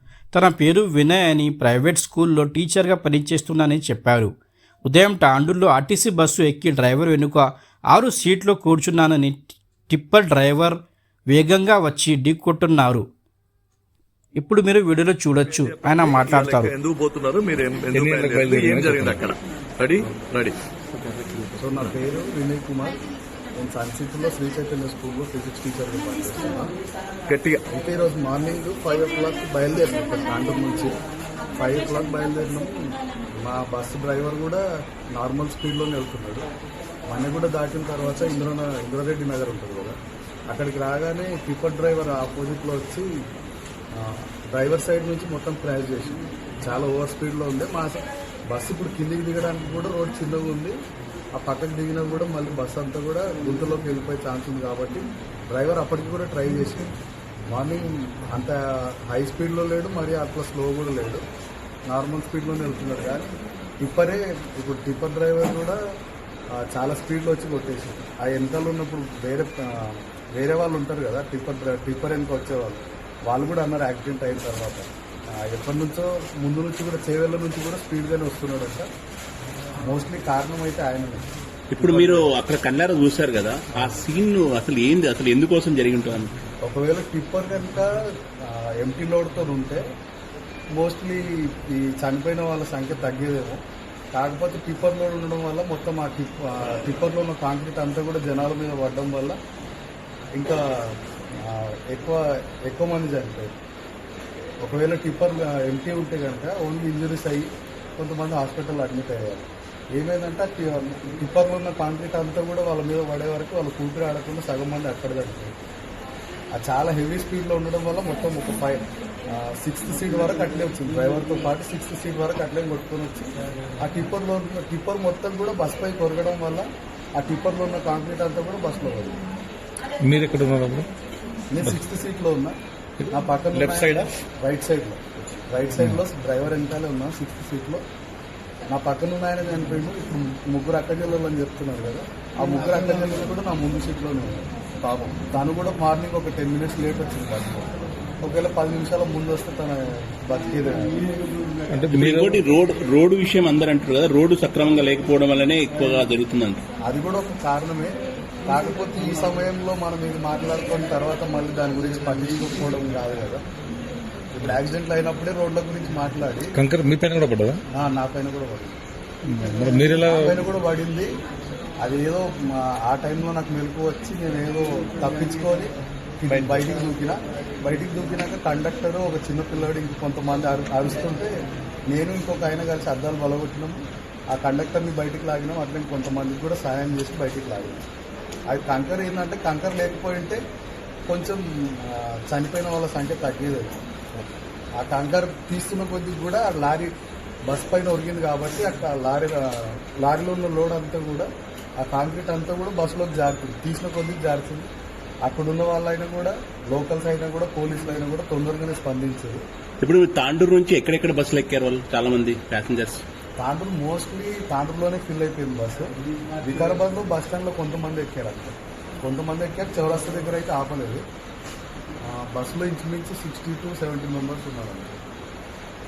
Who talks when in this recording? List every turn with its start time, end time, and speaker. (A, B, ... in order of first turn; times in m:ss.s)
0:00.3-0:04.3 A
0:04.9-0:10.8 A
0:11.3-0:13.1 A
0:14.4-0:16.7 A
0:15.5-0:21.5 B
0:17.9-0:19.2 C
0:21.6-0:23.0 D
0:23.5-0:26.7 D
0:27.3-0:27.6 B
0:27.7-0:30.9 D
0:31.6-0:34.6 D
0:35.2-0:36.4 D
0:37.1-0:40.0 D
0:40.5-0:43.1 D
0:43.9-0:50.8 D
0:51.4-0:56.9 D
0:57.5-1:01.2 D
1:01.9-1:05.8 D
1:06.6-1:18.9 D
1:19.8-1:21.2 D
1:21.7-1:26.3 E
1:21.8-1:22.3 D
1:26.6-1:29.8 D
1:30.8-1:33.6 D
1:34.1-1:39.4 D
1:40.4-1:43.5 D
1:44.6-1:55.5 D
1:56.5-2:09.2 D
2:10.0-2:10.9 C
2:11.5-2:12.5 D
2:13.1-2:17.8 D
2:13.6-2:14.1 B
2:18.7-2:27.7 D
2:28.2-2:31.0 D
2:31.7-2:32.4 C
2:31.9-2:36.6 E
2:36.8-2:37.9 D
2:38.5-2:43.4 D
2:44.3-2:46.5 D
2:46.6-2:47.6 C
2:47.7-2:48.8 D
2:49.3-2:50.3 C
2:49.6-2:51.1 D
2:51.8-2:55.7 D
2:56.2-3:01.3 D
3:01.9-3:03.8 D
3:04.3-3:07.8 D
3:08.5-3:10.4 D
3:11.1-3:13.7 D
3:14.8-3:16.9 D
3:17.5-3:21.3 D
3:21.8-3:24.7 D
3:25.2-3:29.4 D
3:29.8-3:33.0 E
3:33.4-3:41.0 D
3:42.0-3:45.0 D